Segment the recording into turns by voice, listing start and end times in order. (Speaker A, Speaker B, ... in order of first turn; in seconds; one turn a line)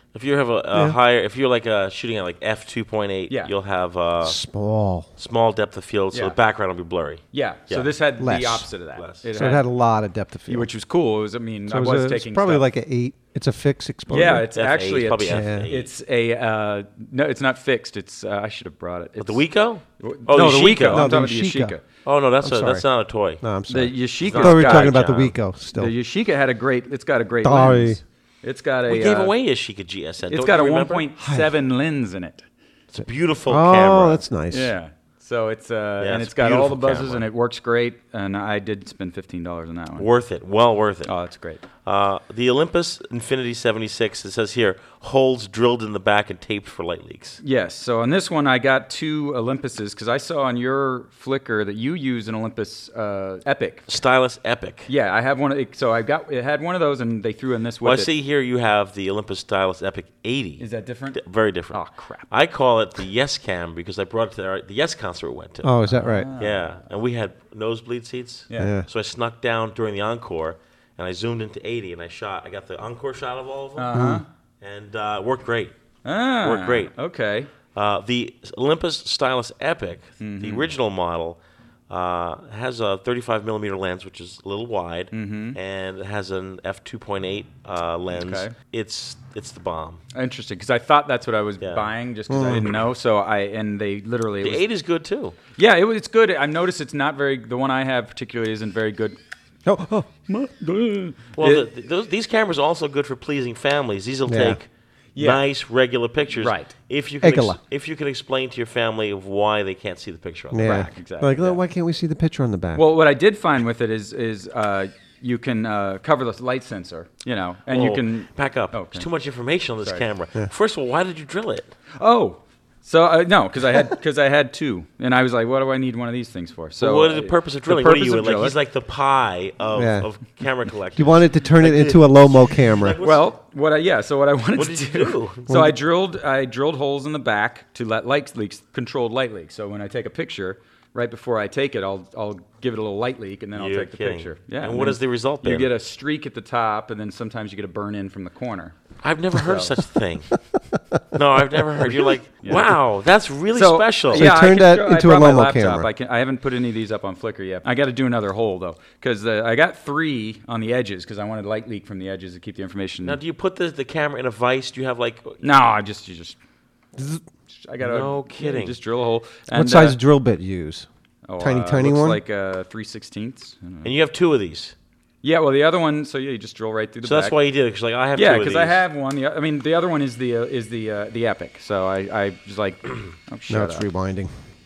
Speaker A: 0.1-4.4
Speaker B: 3.3-3.5
Speaker C: 4.2-5.1
Speaker A: 5.2-8.0
Speaker B: 7.3-9.7
Speaker C: 8.2-8.7
Speaker A: 8.9-9.2
Speaker C: 9.3-10.7
Speaker B: 10.5-12.7
Speaker C: 11.7-14.5
Speaker B: 14.1-19.4
Speaker A: 14.2-15.9
Speaker C: 15.2-15.7
Speaker A: 19.2-21.2
Speaker B: 20.0-21.8
Speaker C: 20.3-21.8
Speaker A: 22.1-23.4
Speaker C: 22.4-22.8
Speaker C: 23.4-25.9
Speaker B: 23.7-25.0
Speaker A: 24.2-25.3
Speaker B: 25.7-29.3
Speaker C: 27.4-28.0
Speaker A: 28.9-31.1
Speaker B: 30.3-32.4
Speaker C: 31.2-31.5
Speaker A: 32.9-34.2
Speaker C: 33.5-34.7
Speaker B: 34.5-40.1
Speaker A: 36.0-37.2
Speaker A: 40.0-41.1
Speaker B: 41.0-41.6
Speaker A: 41.8-47.4
Speaker B: 47.4-53.9
Speaker A: 53.9-54.9
Speaker B: 54.9-58.1
Speaker A: 57.8-65.7
Speaker B: 60.6-62.3
Speaker C: 65.6-66.3
Speaker B: 65.8-66.8
Speaker A: 66.4-74.0
Speaker C: 68.5-68.9
Speaker B: 73.8-74.3
Speaker C: 73.9-74.2
Speaker A: 74.6-75.7
Speaker B: 76.0-77.5
Speaker A: 76.4-76.9
Speaker A: 77.7-90.0
Speaker B: 80.2-80.7
Speaker B: 85.1-85.6
Speaker B: 88.1-88.5
Speaker B: 90.1-94.6
Speaker A: 91.6-91.9
Speaker C: 92.3-92.7
Speaker A: 94.4-95.4
Speaker B: 95.6-99.2
Speaker C: 99.7-100.1
Speaker B: 100.3-101.7
Speaker A: 101.4-111.0
Speaker C: 104.3-104.6
Speaker B: 105.2-105.4
Speaker B: 106.4-106.7
Speaker C: 107.2-107.6
Speaker C: 110.5-112.8
Speaker B: 110.6-111.6
Speaker B: 112.7-119.0
Speaker A: 117.7-121.7
Speaker B: 122.0-128.6
Speaker A: 126.8-133.3
Speaker C: 129.7-130.1
Speaker C: 130.9-133.0
Speaker B: 133.0-148.8
Speaker A: 134.6-135.5
Speaker C: 135.5-135.7
Speaker A: 143.6-145.7
Speaker A: 149.0-150.3
Speaker B: 149.4-149.7
Speaker A: 151.1-154.3
Speaker B: 152.4-152.7
Speaker B: 153.5-163.2
Speaker C: 154.1-155.9
Speaker A: 163.0-165.4
Speaker B: 165.4-166.4
Speaker C: 166.9-167.2
Speaker B: 167.5-170.0
Speaker A: 167.8-168.8
Speaker C: 169.5-170.9
Speaker B: 171.3-173.9
Speaker C: 171.4-172.2
Speaker A: 173.8-174.7
Speaker B: 175.2-177.3
Speaker A: 177.0-178.8
Speaker B: 178.1-183.9
Speaker C: 183.5-184.3